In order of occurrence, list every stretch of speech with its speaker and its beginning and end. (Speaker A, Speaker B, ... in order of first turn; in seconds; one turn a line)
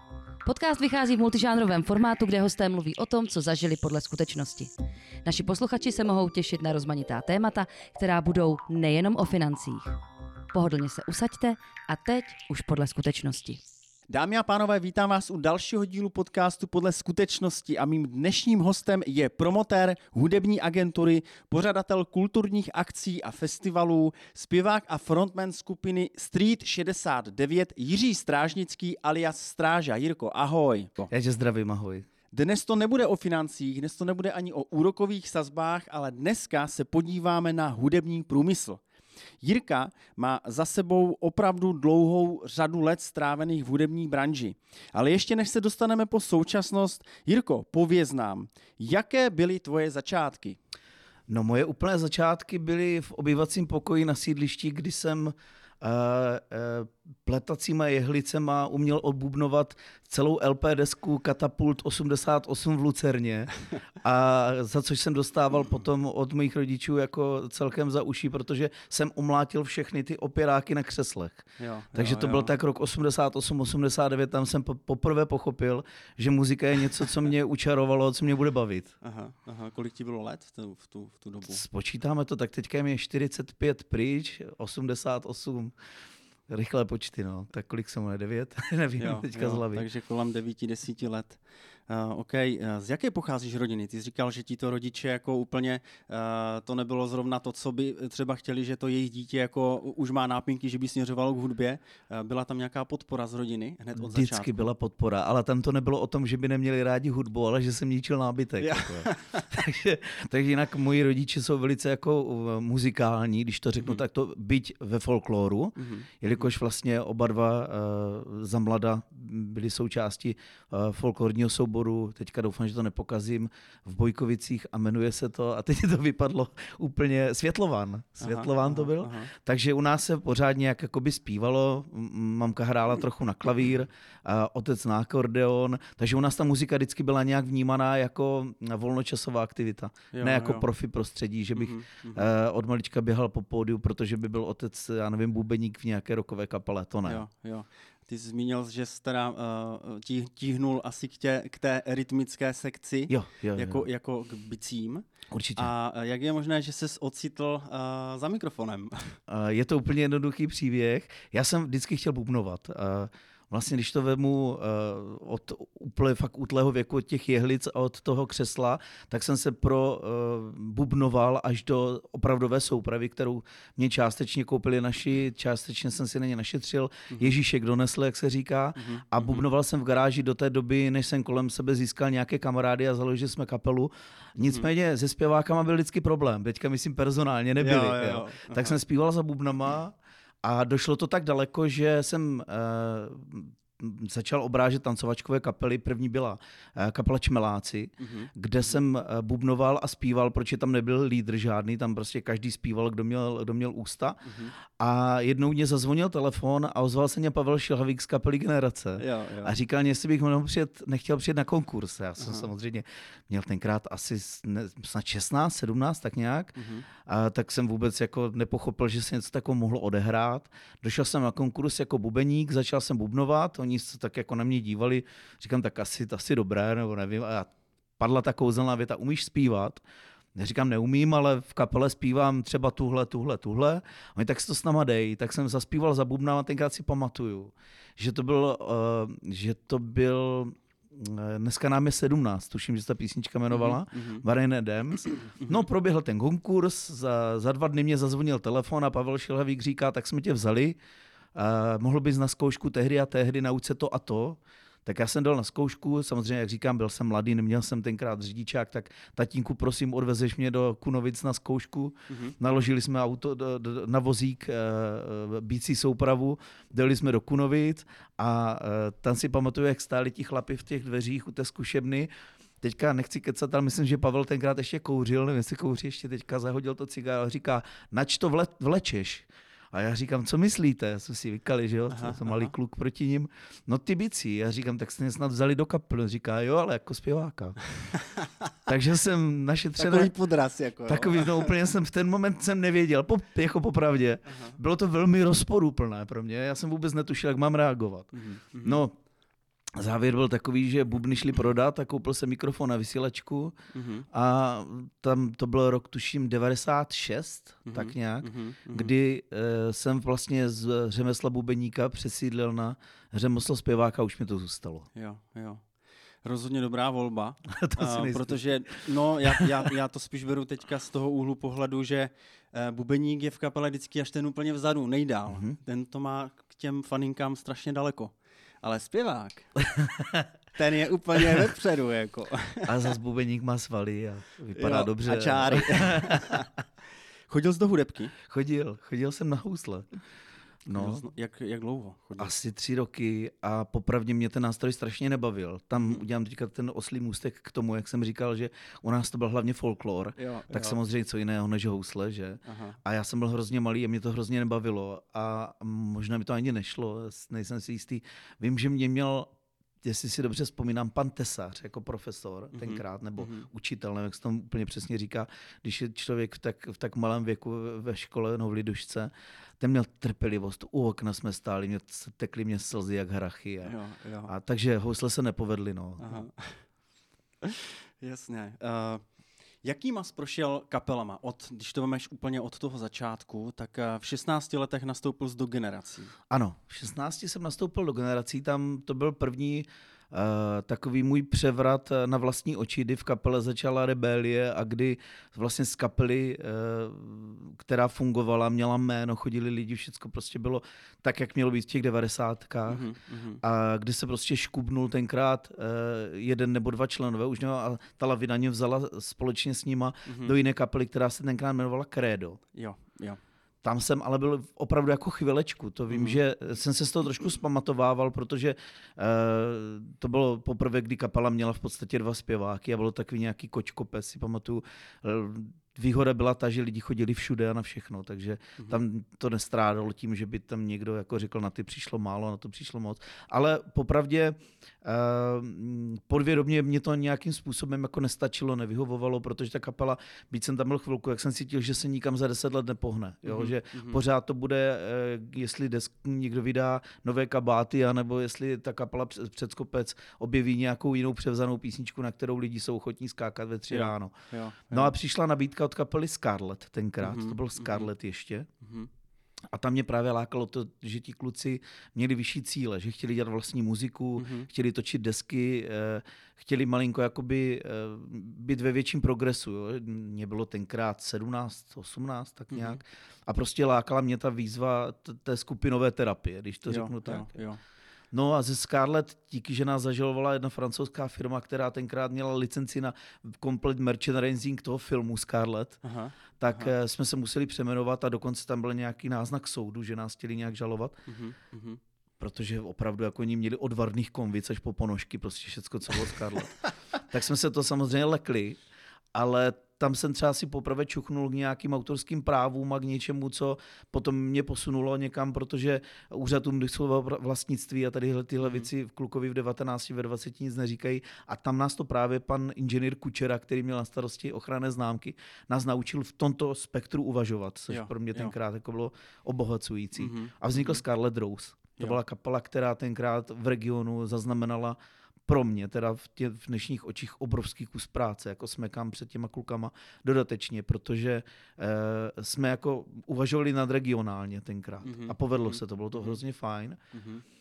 Speaker A: 0.4-4.7
Speaker A: 5.2-10.0
Speaker A: 10.5-13.6
Speaker B: 14.1-31.1
Speaker C: 31.1-32.0
Speaker B: 32.3-38.8
Speaker B: 39.4-50.6
Speaker C: 51.3-78.9
Speaker B: 71.6-72.5
Speaker B: 79.0-81.6
Speaker C: 81.5-85.7
Speaker C: 86.5-89.8
Speaker B: 89.0-104.6
Speaker C: 104.0-147.2
Speaker B: 108.6-109.5
Speaker B: 115.8-116.4
Speaker B: 128.2-129.3
Speaker B: 140.1-140.6
Speaker B: 141.6-142.3
Speaker B: 147.0-159.2
Speaker C: 153.1-153.8
Speaker C: 155.3-155.7
Speaker C: 159.3-229.8
Speaker B: 178.8-179.4
Speaker B: 187.6-188.8
Speaker B: 198.0-198.7
Speaker B: 204.2-204.5
Speaker B: 209.0-209.6
Speaker B: 212.2-212.5
Speaker B: 216.6-216.8
Speaker C: 230.3-250.8
Speaker B: 243.5-244.2
Speaker B: 245.3-245.6
Speaker C: 251.3-272.1
Speaker B: 262.1-262.4
Speaker C: 272.6-287.6
Speaker B: 281.9-282.5
Speaker B: 287.8-288.5
Speaker C: 288.7-290.1
Speaker B: 289.8-291.5
Speaker C: 290.9-298.9
Speaker B: 294.3-294.6
Speaker B: 298.1-298.8
Speaker C: 299.7-303.6
Speaker B: 303.7-304.1
Speaker C: 304.1-314.9
Speaker B: 307.6-308.9
Speaker B: 314.9-315.6
Speaker B: 316.2-329.6
Speaker C: 317.5-318.4
Speaker C: 319.2-319.7
Speaker C: 325.3-325.6
Speaker C: 329.7-330.3
Speaker B: 330.5-332.9
Speaker C: 332.6-336.4
Speaker B: 334.5-336.5
Speaker B: 337.3-338.1
Speaker C: 338.2-339.9
Speaker C: 340.6-341.0
Speaker B: 340.7-342.3
Speaker C: 342.2-359.3
Speaker B: 345.8-346.0
Speaker B: 350.2-350.8
Speaker B: 352.4-352.8
Speaker C: 359.8-373.7
Speaker B: 362.5-363.4
Speaker B: 373.6-374.3
Speaker C: 374.3-376.1
Speaker B: 376.0-376.6
Speaker B: 377.4-386.1
Speaker C: 386.3-402.9
Speaker B: 402.7-403.4
Speaker C: 403.4-412.4
Speaker B: 410.1-410.4
Speaker B: 412.5-413.2
Speaker C: 413.6-454.1
Speaker B: 415.9-416.2
Speaker B: 443.2-444.0
Speaker B: 453.7-454.9
Speaker C: 454.7-458.5
Speaker B: 457.0-457.9
Speaker B: 458.6-458.9
Speaker C: 459.5-477.3
Speaker B: 464.2-464.5
Speaker B: 472.5-472.8
Speaker B: 476.7-477.6
Speaker C: 478.1-485.8
Speaker B: 485.8-486.7
Speaker C: 486.4-491.0
Speaker B: 491.1-491.8
Speaker C: 492.2-498.6
Speaker C: 499.1-536.8
Speaker B: 508.4-508.7
Speaker B: 517.7-518.3
Speaker B: 520.0-520.8
Speaker B: 534.8-536.2
Speaker B: 536.9-537.2